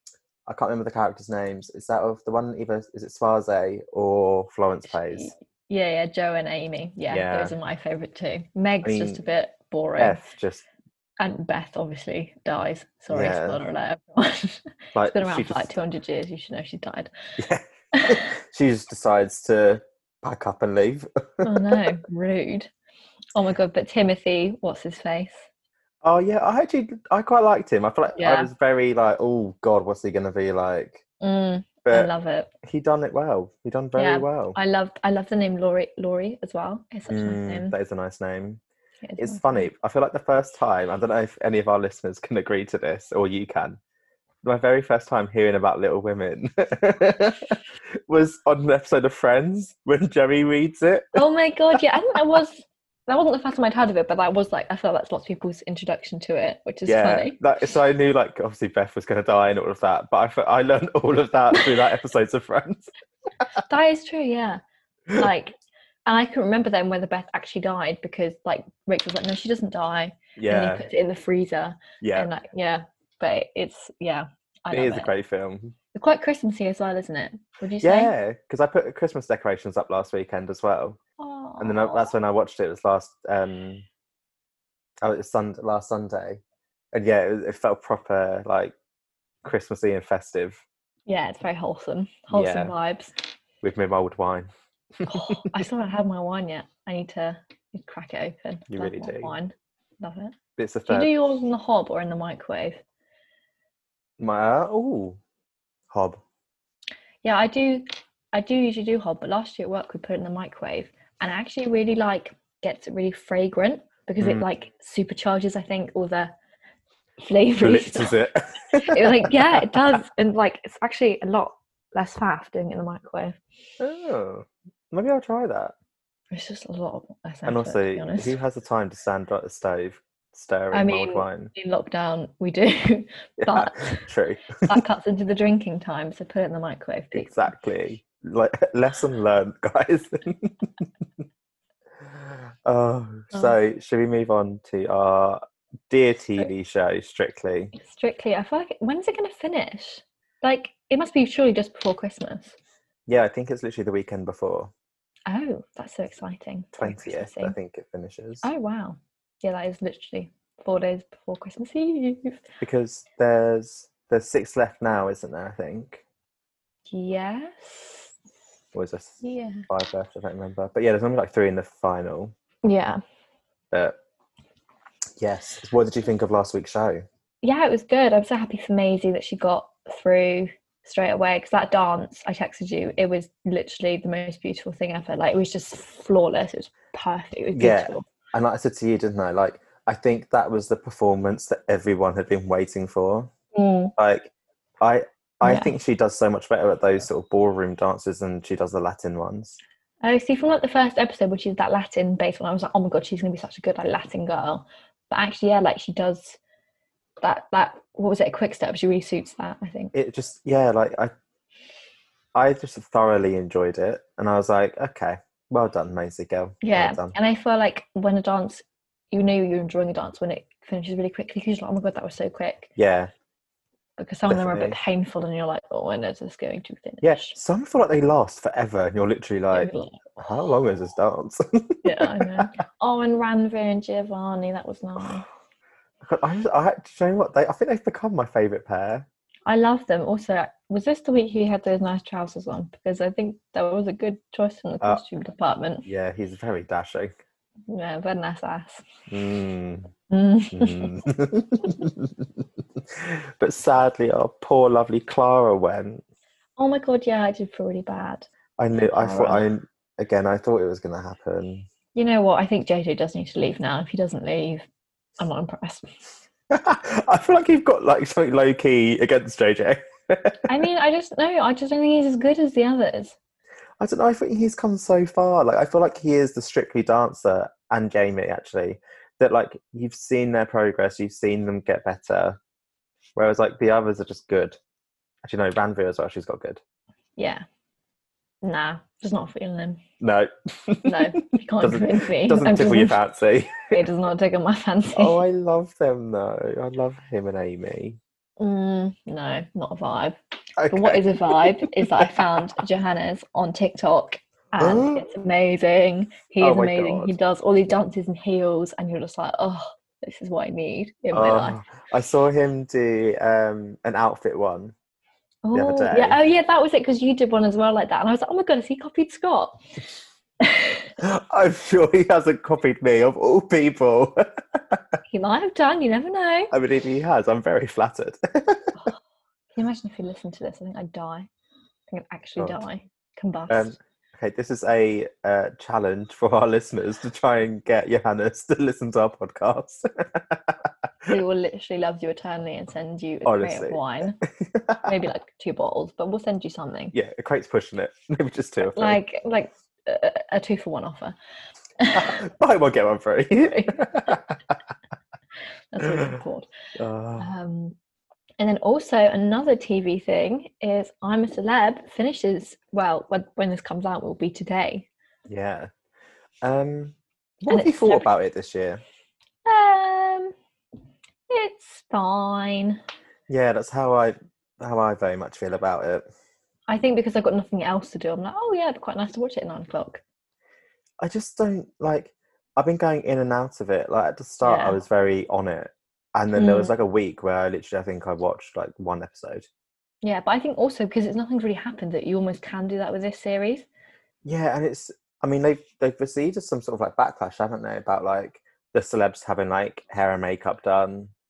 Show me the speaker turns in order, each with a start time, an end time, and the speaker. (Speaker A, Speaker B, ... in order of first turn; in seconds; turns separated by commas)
Speaker A: 0.5-5.3, Speaker B: 5.0-10.2, Speaker A: 7.1-7.5, Speaker A: 8.8-9.2, Speaker A: 10.0-10.6, Speaker B: 11.2-17.1, Speaker A: 13.1-13.6, Speaker A: 14.9-15.7, Speaker A: 17.4-21.9, Speaker B: 17.9-18.3, Speaker B: 21.4-22.7, Speaker B: 23.3-25.4, Speaker A: 26.0-31.0, Speaker B: 28.1-28.5, Speaker B: 31.2-32.5, Speaker A: 31.9-32.1, Speaker A: 32.6-34.6, Speaker B: 34.0-37.7, Speaker A: 37.1-38.6, Speaker B: 39.0-39.6, Speaker A: 39.2-43.8, Speaker A: 44.4-47.6, Speaker A: 48.1-51.2, Speaker B: 51.1-57.4, Speaker A: 56.9-62.9, Speaker B: 63.6-64.6, Speaker B: 65.1-75.1, Speaker A: 70.3-70.8, Speaker A: 72.0-72.3, Speaker A: 74.7-75.7, Speaker B: 75.9-78.1, Speaker A: 77.8-81.0, Speaker B: 81.2-82.1, Speaker A: 81.6-83.8, Speaker A: 85.0-86.4, Speaker A: 86.9-88.7, Speaker A: 89.4-90.6, Speaker B: 91.1-93.1, Speaker A: 92.3-92.7, Speaker A: 93.6-94.5, Speaker A: 95.0-95.5, Speaker B: 95.0-100.3, Speaker A: 98.7-99.3, Speaker A: 100.6-101.1, Speaker B: 100.9-102.8, Speaker A: 104.2-105.2, Speaker A: 105.9-106.2, Speaker B: 107.2-116.3, Speaker A: 114.2-114.5, Speaker B: 117.2-118.2, Speaker A: 117.6-119.8, Speaker B: 118.8-123.3, Speaker A: 123.8-125.7, Speaker B: 126.3-128.3, Speaker A: 127.5-131.5, Speaker B: 130.7-134.1, Speaker A: 133.4-134.8, Speaker B: 134.7-137.5, Speaker A: 137.1-140.9, Speaker A: 142.0-147.7, Speaker B: 147.7-152.5, Speaker A: 153.1-154.7, Speaker B: 155.3-157.5, Speaker A: 156.8-158.4, Speaker B: 158.4-162.4, Speaker A: 162.6-166.0, Speaker B: 166.9-168.1, Speaker A: 168.7-172.3, Speaker B: 169.2-169.7, Speaker B: 172.6-173.0, Speaker A: 175.2-177.0, Speaker B: 177.4-188.0, Speaker A: 187.5-193.3, Speaker B: 193.5-193.9, Speaker A: 194.0-199.6, Speaker B: 195.4-195.7, Speaker B: 200.0-206.4, Speaker B: 207.2-209.9, Speaker A: 209.9-211.1, Speaker A: 212.3-217.1, Speaker B: 216.6-222.7, Speaker A: 222.8-223.1, Speaker B: 224.0-227.3, Speaker A: 224.3-224.8, Speaker A: 227.0-232.5, Speaker B: 229.5-230.0, Speaker B: 231.8-235.2, Speaker A: 236.0-239.1, Speaker B: 239.5-245.8, Speaker A: 245.8-247.1, Speaker B: 247.7-248.8, Speaker A: 249.1-249.9, Speaker B: 250.1-251.0, Speaker A: 250.5-256.0, Speaker B: 256.6-258.3, Speaker A: 258.6-261.7, Speaker B: 259.0-259.4, Speaker B: 261.9-264.6, Speaker B: 265.2-265.9, Speaker A: 266.5-270.5, Speaker B: 270.5-273.1, Speaker A: 273.8-282.4, Speaker A: 283.1-284.6, Speaker A: 285.2-286.6, Speaker B: 287.2-287.4, Speaker B: 288.4-289.8, Speaker A: 290.0-291.0, Speaker B: 290.8-293.0, Speaker A: 291.6-293.8, Speaker B: 293.7-295.2, Speaker A: 294.9-298.0, Speaker B: 298.4-300.2, Speaker A: 300.6-302.1, Speaker B: 300.7-311.6, Speaker A: 304.6-305.0, Speaker A: 306.4-307.1, Speaker A: 311.1-314.7, Speaker B: 315.4-319.6, Speaker A: 315.5-316.2, Speaker B: 320.4-320.9, Speaker A: 321.0-324.8, Speaker B: 325.1-326.5, Speaker A: 326.5-328.7, Speaker B: 329.5-331.3, Speaker B: 331.9-333.8, Speaker A: 333.5-341.1, Speaker B: 341.1-344.2, Speaker A: 343.2-343.8, Speaker A: 344.4-344.9, Speaker B: 344.8-346.9, Speaker A: 346.9-349.0, Speaker B: 348.6-351.1, Speaker B: 351.8-352.2, Speaker A: 351.9-354.4, Speaker B: 353.5-354.1, Speaker B: 355.7-356.5, Speaker A: 356.8-357.3, Speaker B: 357.2-357.8, Speaker B: 358.4-364.9, Speaker A: 365.3-365.7, Speaker A: 366.4-368.8, Speaker B: 367.5-368.1, Speaker B: 369.4-370.3, Speaker B: 371.3-372.8, Speaker A: 373.3-376.0, Speaker B: 376.7-380.0, Speaker A: 381.0-389.5, Speaker B: 384.4-384.8, Speaker B: 386.3-386.7, Speaker B: 390.0-393.7, Speaker A: 394.2-401.1